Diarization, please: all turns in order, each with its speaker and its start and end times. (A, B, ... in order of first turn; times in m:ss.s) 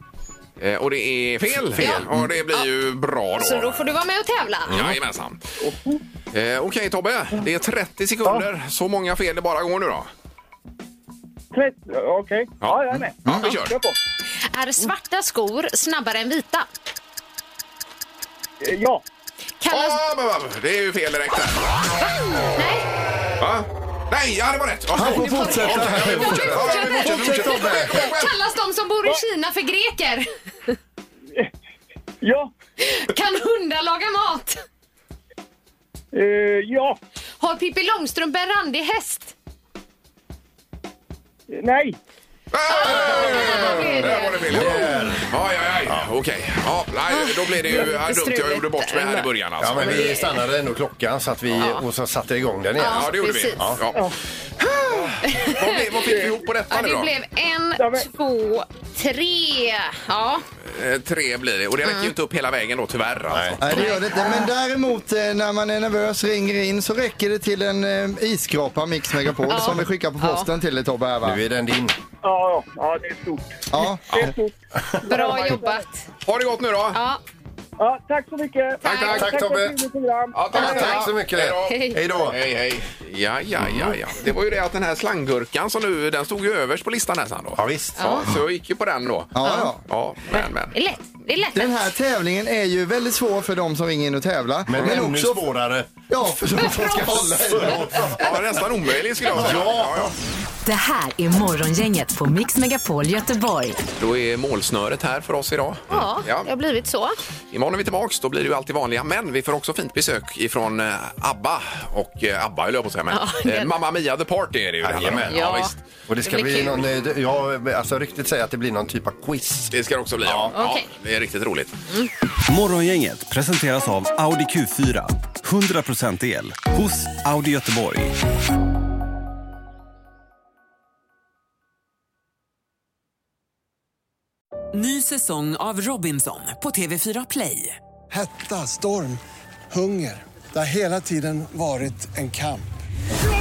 0:00.6-0:03.8 A
0:01.8-0:02.7 B
0:03.4-0:04.8 B
0:04.7-0:05.4 A
0:06.3-0:10.1 A
0:11.6-0:13.2 C
0:12.6-0:13.7 A
0:13.2-0:13.5 D
0:14.4-0:16.7 B
0:18.6-0:19.0 C
0:19.6-0:20.0 B
0:19.7-0:21.6 A
0:22.0-0:22.8 B
0:23.4-0:28.3 A
0:24.9-0:28.1 D
0:25.0-0:30.7 B
0:32.2-0:32.5 C
0:32.8-0:34.6 B
0:36.1-0:36.9 C
0:37.4-0:39.3 B
0:41.6-0:41.9 C
0:42.5-0:50.2 A
0:42.7-0:45.2 B
0:42.9-0:45.3 E
0:47.1-0:50.4 B
0:49.6-0:53.8 E
0:51.6-0:51.8 B
0:52.8-0:53.7 B
0:52.9-0:54.1 A
0:54.6-1:00.4 B
0:55.5-0:57.1 A
1:00.6-1:03.9 A
1:01.8-1:02.1 B
1:03.3-1:03.6 E
1:03.6-1:11.4 D
1:03.7-1:04.5 B
1:09.5-1:10.5 B
1:11.2-1:12.0 E
1:12.2-1:13.4 C
1:13.7-1:14.3 D
1:14.1-1:14.5 C
1:15.0-1:16.0 B
1:15.1-1:15.6 C
1:16.2-1:17.0 A
1:16.9-1:17.2 B
1:17.8-1:20.3 C
1:18.8-1:19.3 B
1:18.9-1:19.8 E
1:20.3-1:29.4 A
1:20.5-1:22.4 E
1:20.5-1:21.1 B
1:21.7-1:22.0 B
1:23.6-1:24.0 E
1:27.5-1:28.1 E
1:28.0-1:28.2 B
1:29.3-1:29.8 D
1:29.4-1:29.7 B
1:29.9-1:30.7 A
1:30.3-1:31.9 B
1:31.5-1:35.5 D
1:34.7-1:35.9 E
1:36.1-1:38.1 D
1:36.6-1:38.3 B
1:37.2-1:38.4 E
1:38.2-1:40.1 A
1:39.3-1:40.1 E
1:40.6-1:43.8 F
1:44.0-1:46.5 A
1:45.9-1:47.2 B
1:47.5-1:55.7 A
1:53.1-1:53.7 B
1:54.8-1:59.7 E
1:55.3-1:55.7 B
1:56.2-1:56.8 B
1:59.7-2:01.8 A
2:00.2-2:00.6 E
2:00.5-2:00.9 B
2:02.5-2:08.1 G
2:14.7-2:17.8 H
2:18.1-2:22.7 I